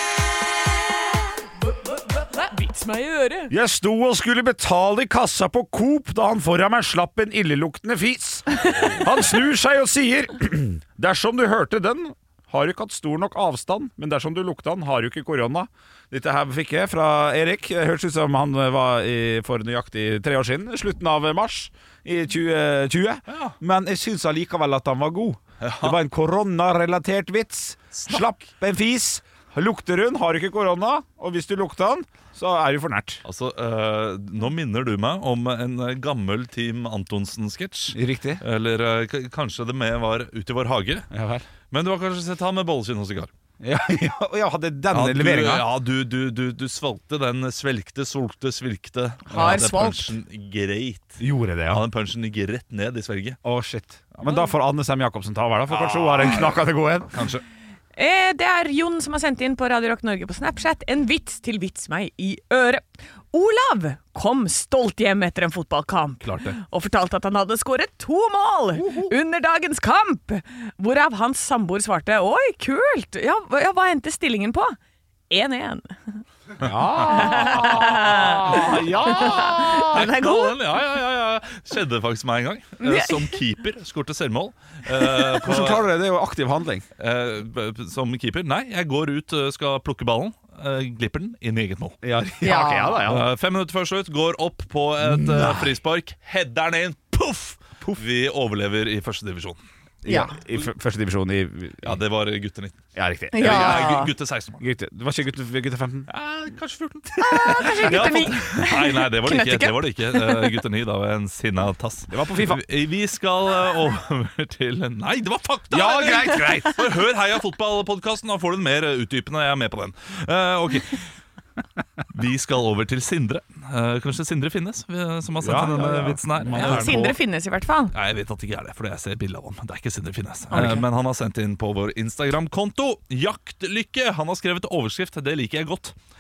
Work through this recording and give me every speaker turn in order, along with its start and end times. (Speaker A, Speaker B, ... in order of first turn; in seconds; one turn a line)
Speaker A: 2.1-3.5
Speaker B: 3.5-33.2
Speaker C: 23.3-23.6
Speaker C: 25.6-26.0
Speaker C: 28.0-28.2
Speaker C: 33.2-41.1
Speaker B: 37.9-38.4
Speaker B: 41.1-41.5
Speaker C: 41.7-43.3
Speaker B: 43.6-45.7
Speaker C: 44.9-53.4
Speaker A: 49.3-50.1
Speaker B: 49.3-49.6
Speaker B: 51.2-51.8
Speaker B: 53.4-57.3
Speaker C: 55.7-56.6
Speaker C: 57.1-57.4
Speaker A: 58.0-74.8
Speaker C: 66.2-66.6
Speaker B: 68.8-69.1
Speaker A: 75.3-76.2
Speaker B: 76.6-80.1
Speaker A: 77.0-80.6
Speaker C: 78.5-85.9
Speaker A: 82.8-83.4
Speaker B: 85.4-86.8
Speaker C: 87.0-92.0
Speaker B: 92.0-93.3
Speaker A: 92.4-93.0
Speaker C: 93.1-99.6
Speaker B: 95.0-95.7
Speaker B: 100.0-102.0
Speaker A: 100.1-100.3
Speaker C: 101.8-104.6
Speaker B: 103.0-106.1
Speaker A: 103.3-104.1
Speaker C: 106.1-121.0
Speaker B: 107.2-108.2
Speaker A: 107.2-110.6
Speaker B: 112.1-112.6
Speaker B: 115.7-116.9
Speaker C: 122.1-127.2
Speaker B: 125.4-127.1
Speaker A: 126.5-128.0
Speaker C: 127.9-135.9
Speaker A: 130.5-130.8
Speaker B: 130.5-130.8